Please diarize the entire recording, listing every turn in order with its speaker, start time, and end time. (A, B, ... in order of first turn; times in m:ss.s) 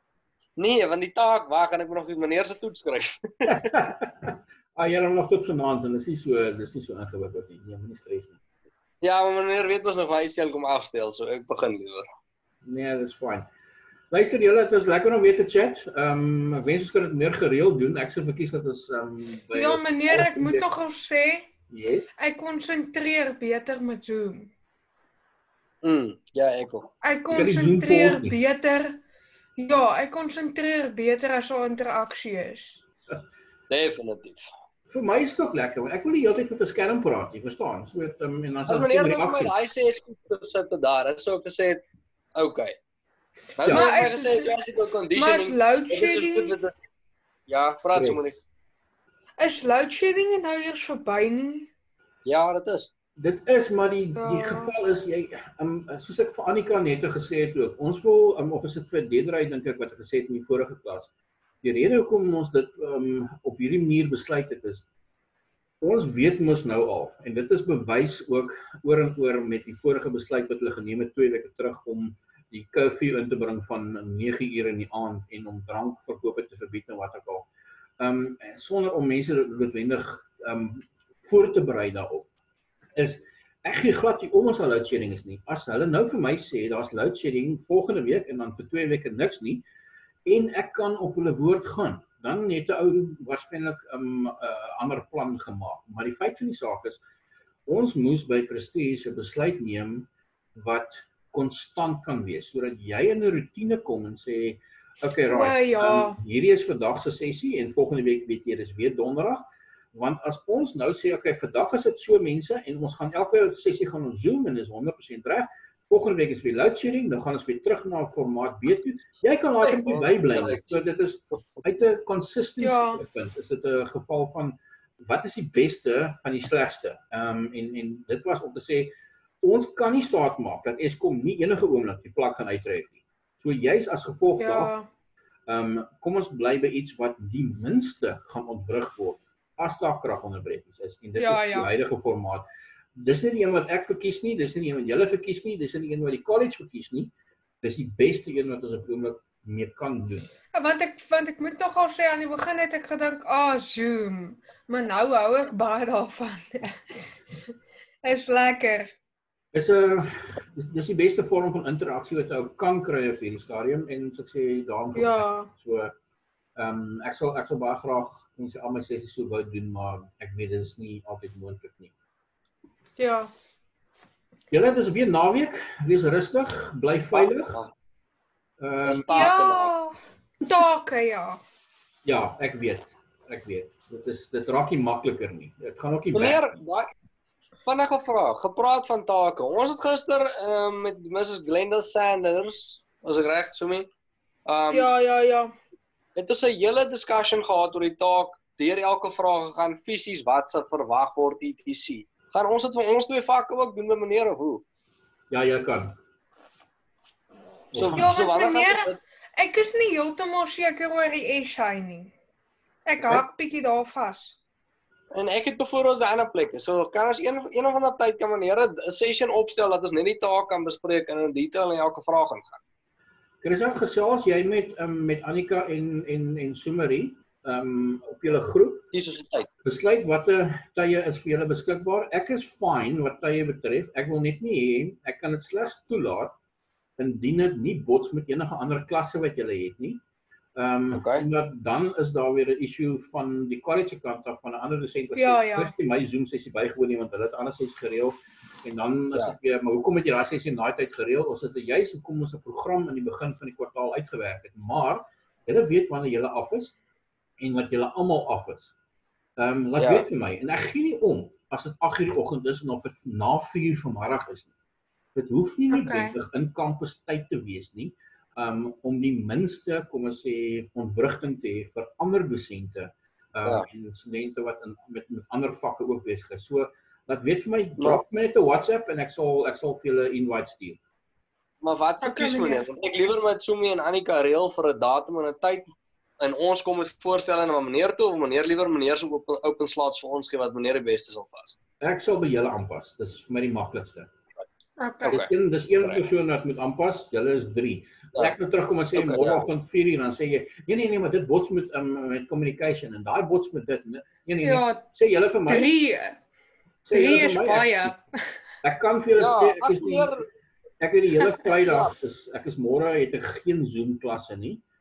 0:00.6-0:03.6 A
0:03.5-0:08.4 B
0:09.0-0:12.1 A
0:12.6-0:13.5 B
0:14.1-0:20.7 B
0:19.5-0:21.5 C
0:21.7-0:22.1 B
0:22.2-0:24.5 C
0:25.8-0:26.9 A
0:27.0-0:29.0 C
0:27.3-0:28.4 B
0:29.6-0:32.8 C
0:33.7-0:34.4 A
0:34.9-0:39.6 B
0:38.7-0:41.8 A
0:42.4-0:42.8 A
0:43.6-0:46.8 A
0:43.6-0:44.1 B
0:43.7-0:44.5 C
0:45.2-0:46.5 C
0:47.5-0:48.4 A
0:47.9-0:48.2 B
0:49.4-0:51.7 C
0:52.3-0:52.9 A
0:53.2-1:04.9 B
0:54.2-0:54.7 C
1:05.8-1:17.5 B
1:18.0-1:22.3 B
1:23.0-1:29.6 B
1:30.3-1:37.0 B
1:37.7-2:14.7 B
1:45.3-1:46.2 C
1:59.6-2:00.8 A
2:02.6-2:03.0 C
2:14.4-2:14.9 C
2:15.5-2:22.4 B
2:21.2-2:21.7 C
2:23.0-2:30.3 B
2:30.5-2:37.0 C
2:38.0-2:39.0 C
2:39.5-2:46.0 B
2:45.0-2:45.5 C
2:46.6-2:52.0 B
2:53.0-2:53.3 C
2:54.5-2:57.6 B
2:57.1-2:57.7 A
2:58.6-2:59.4 B
2:58.8-2:59.7 A
2:59.1-3:01.4 C
3:02.0-3:06.6 B
3:06.2-3:06.9 A
3:07.6-3:13.9 A
3:14.5-3:14.9 A
3:14.7-3:15.5 C
3:16.2-3:24.6 A
3:25.3-3:26.0 B
3:27.7-3:28.1 B
3:27.7-3:29.0 A
3:27.9-3:32.1 C
3:32.9-3:34.4 C
3:35.1-3:42.6 A
3:43.4-3:48.9 B
3:48.9-3:49.5 A
3:49.6-3:56.3 B
3:57.0-4:00.0 B
4:00.6-4:16.8 B
4:00.9-4:01.2 A
4:05.2-4:05.7 C
4:17.4-4:18.8 B
4:19.4-4:24.5 B
4:19.8-4:20.1 A
4:25.2-4:40.8 B
4:25.7-4:26.2 C
4:41.6-4:51.6 A
4:42.0-4:42.7 C
4:51.8-4:54.1 B
4:54.8-4:55.2 C
4:55.0-5:05.7 B
4:55.1-4:56.1 A
4:59.0-4:59.5 A
5:04.4-5:04.8 C
5:05.5-5:06.2 C
5:06.9-5:08.0 B
5:06.9-5:08.4 C
5:08.6-5:10.2 B
5:09.2-5:10.3 A
5:10.8-5:14.6 B
5:11.6-5:11.9 A